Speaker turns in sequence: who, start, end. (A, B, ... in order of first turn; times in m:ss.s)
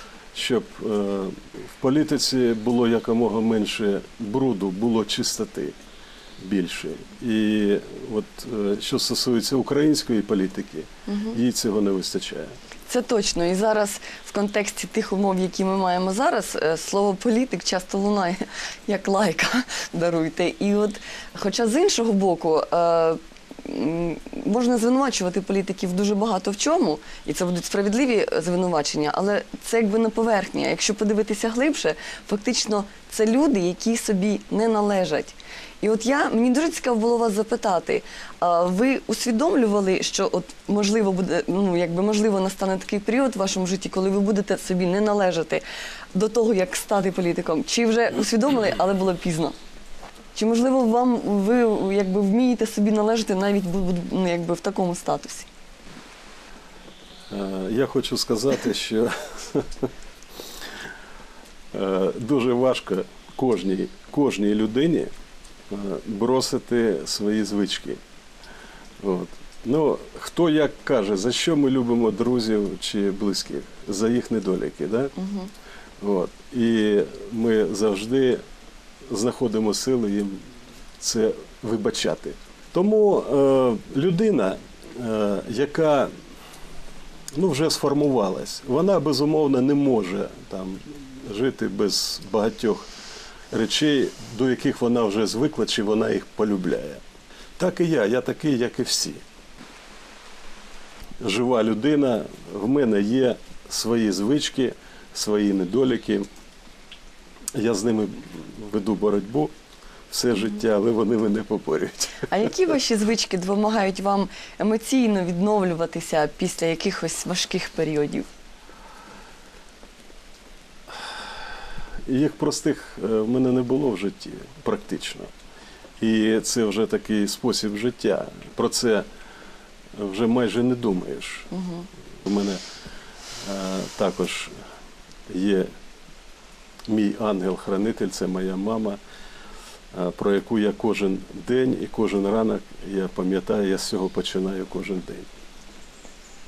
0:00.3-0:05.8 A
0:06.4-0:12.5 A
0:11.1-0:11.4 B
0:12.9-0:49.5 B
0:50.3-0:55.5 B
0:57.3-0:59.9 A
1:01.7-1:05.1 A
1:05.7-1:08.0 A
1:09.0-1:15.1 A
1:15.2-1:15.5 B
1:16.0-1:18.4 A
1:19.1-1:20.4 A
1:21.0-1:26.1 A
1:27.3-1:32.9 A
1:33.5-1:37.0 A
1:37.6-1:39.2 A
1:41.2-1:46.3 A
1:47.5-1:49.5 A
1:50.1-1:52.3 A
1:52.3-1:58.3 B
2:02.0-2:05.3 A
2:06.0-2:09.1 A
2:09.9-2:11.5 A
2:11.5-2:11.9 B
2:12.2-2:12.6 A
2:13.4-2:14.6 A
2:15.3-2:15.7 A
2:16.9-2:19.0 A
2:19.9-2:25.3 A